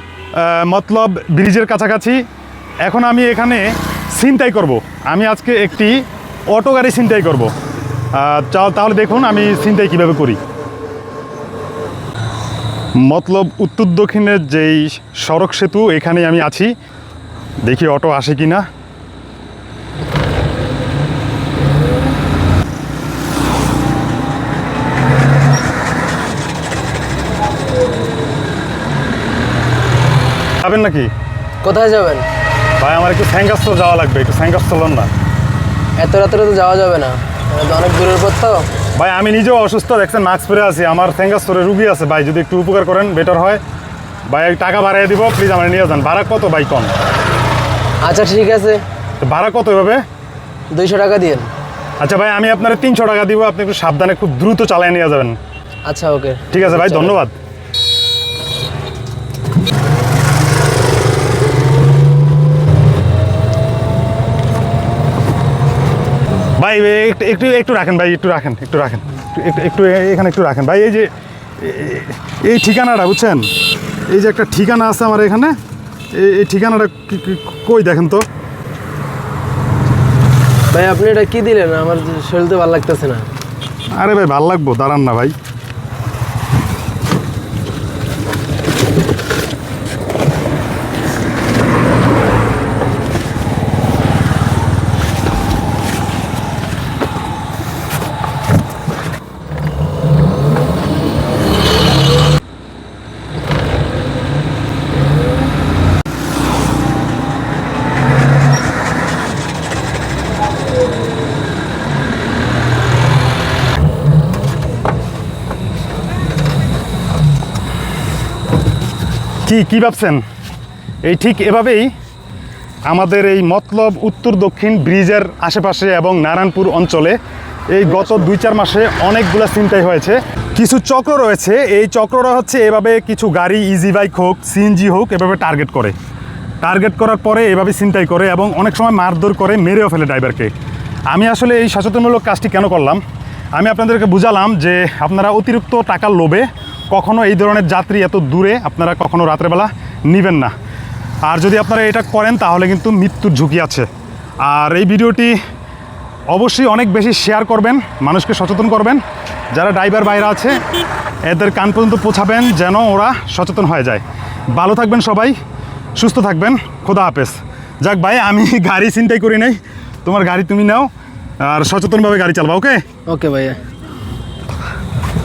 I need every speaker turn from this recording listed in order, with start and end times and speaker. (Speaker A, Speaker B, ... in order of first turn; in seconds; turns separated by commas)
Speaker A: 0.3-2.2, Speaker A: 2.8-7.5, Speaker A: 8.1-10.4, Speaker A: 13.0-16.8, Speaker A: 17.6-18.7, Speaker A: 30.6-31.1, Speaker B: 31.6-32.3, Speaker A: 32.8-35.1, Speaker B: 36.0-38.7, Speaker A: 39.0-43.6, Speaker A: 44.3-46.9, Speaker B: 48.0-48.8, Speaker A: 49.2-50.0, Speaker B: 50.7-51.5, Speaker A: 52.0-55.4, Speaker B: 55.9-57.1, Speaker A: 56.5-57.4, Speaker A: 66.6-73.5, Speaker A: 74.1-75.6, Speaker A: 76.1-78.3, Speaker B: 80.7-83.3, Speaker A: 84.0-85.3, Speaker A: 119.5-120.2, Speaker A: 121.0-121.9, Speaker A: 122.9-127.2, Speaker A: 127.7-135.9, Speaker A: 136.6-140.5, Speaker A: 141.1-143.0, Speaker A: 143.5-150.5, Speaker A: 151.2-153.9, Speaker A: 154.4-155.4, Speaker A: 156.3-160.6, Speaker A: 161.3-165.4, Speaker A: 166.0-170.9, Speaker A: 171.4-172.8, Speaker B: 173.1-173.6